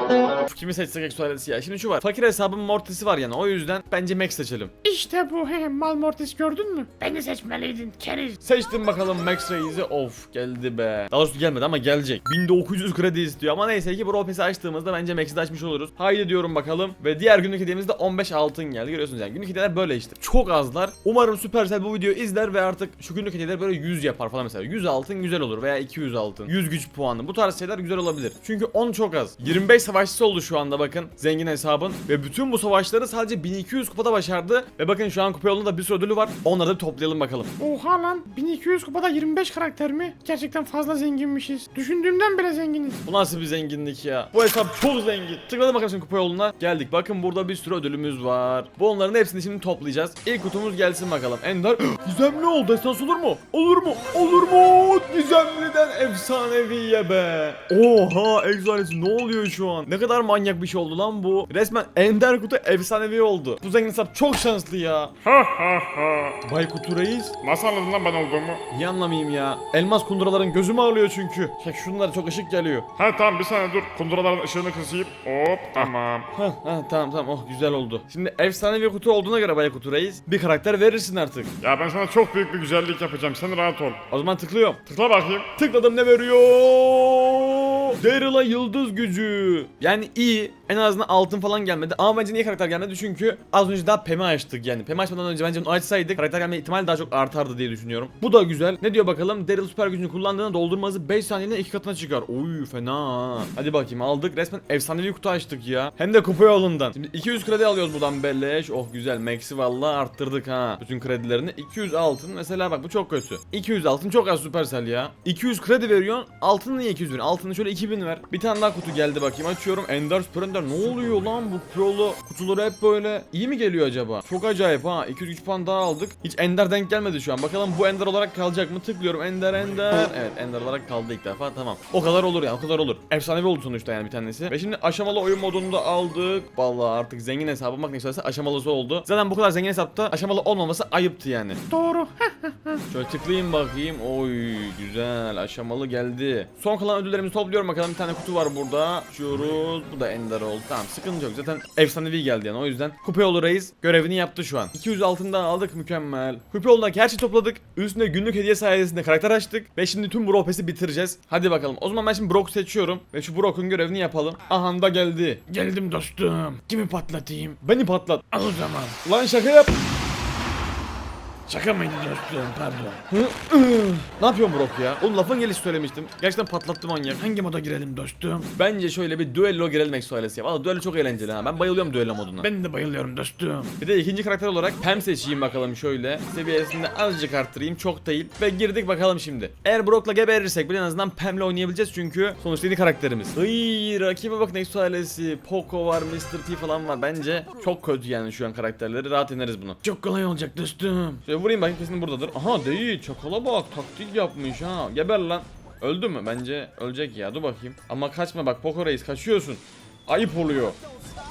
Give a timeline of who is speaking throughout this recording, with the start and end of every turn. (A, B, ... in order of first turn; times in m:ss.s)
0:00.4-0:04.7 A
0:04.8-0:08.4 B
0:08.4-0:37.5 A
0:37.6-0:43.0 B
0:43.0-1:05.2 A
1:05.3-1:06.2 B
1:06.4-1:07.4 A
1:07.4-1:08.2 C
1:07.5-1:08.6 B
1:08.7-1:13.0 A
1:13.2-1:16.2 C
1:13.2-1:13.8 B
1:15.4-1:15.6 B
1:15.8-1:21.7 A
1:21.6-1:23.9 C
1:23.6-1:23.8 B
1:24.0-2:21.6 A
2:21.7-2:22.8 B
2:22.9-2:45.4 A
2:45.5-2:47.6 B
2:47.6-2:48.3 A
2:48.3-2:49.0 B
2:49.0-2:49.7 A
2:51.5-2:53.0 B
2:53.1-2:57.2 A
2:57.2-2:58.5 B
2:58.6-3:02.5 A
3:02.4-3:03.8 B
3:03.8-3:19.8 A
3:19.8-3:21.2 B
3:21.2-3:30.8 A